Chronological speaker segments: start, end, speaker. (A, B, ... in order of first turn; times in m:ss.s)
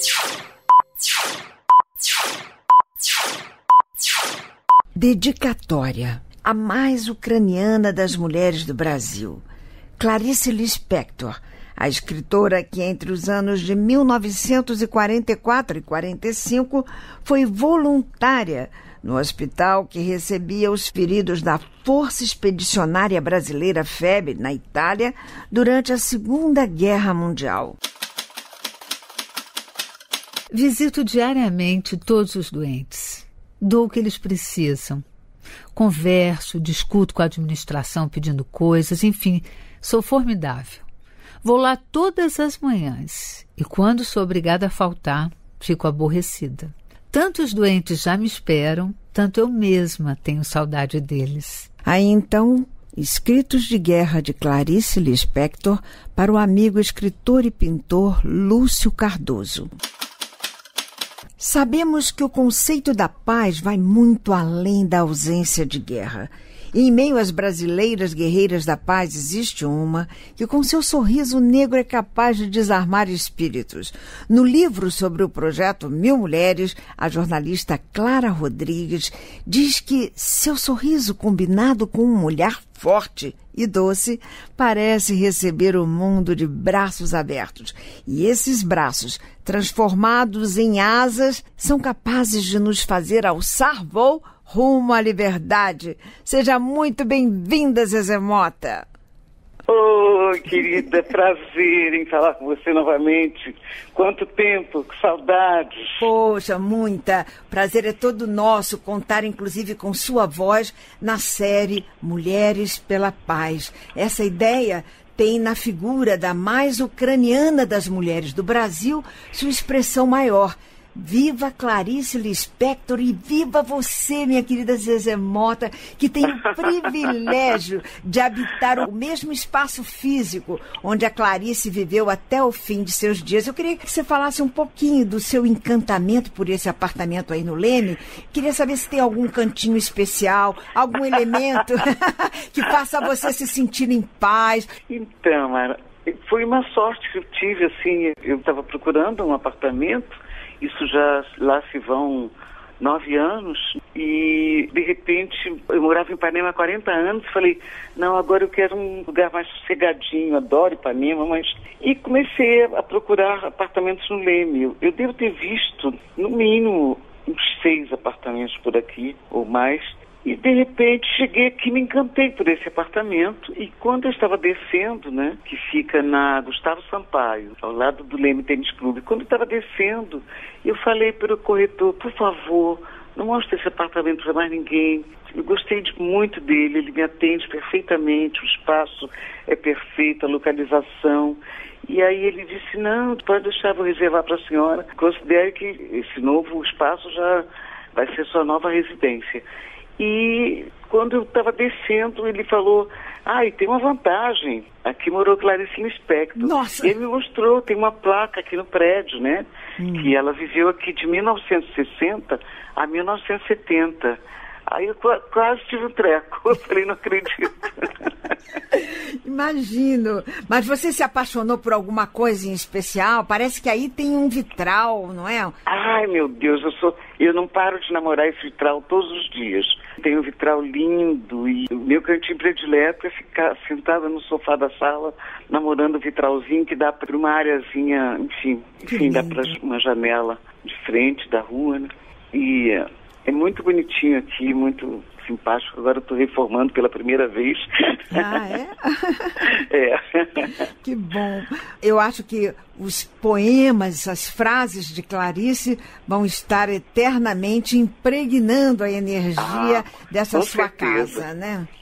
0:05.0-0:09.4 A
0:10.0-0:27.8 A
0:30.5-0:35.0 B
0:35.7-0:40.8 B
0:41.4-0:51.7 B
0:51.8-0:59.7 A
1:01.4-1:38.8 A
1:39.7-1:46.1 C
1:46.0-2:24.7 A
2:24.9-3:19.4 C
3:20.0-3:38.3 C
3:26.4-3:26.9 A
3:29.8-3:30.1 A
3:38.7-3:45.6 A
3:45.7-4:08.3 C
3:58.9-3:59.5 A
4:08.1-4:09.4 A
4:09.4-4:10.5 C
4:10.7-4:21.7 A
4:19.4-4:21.2 C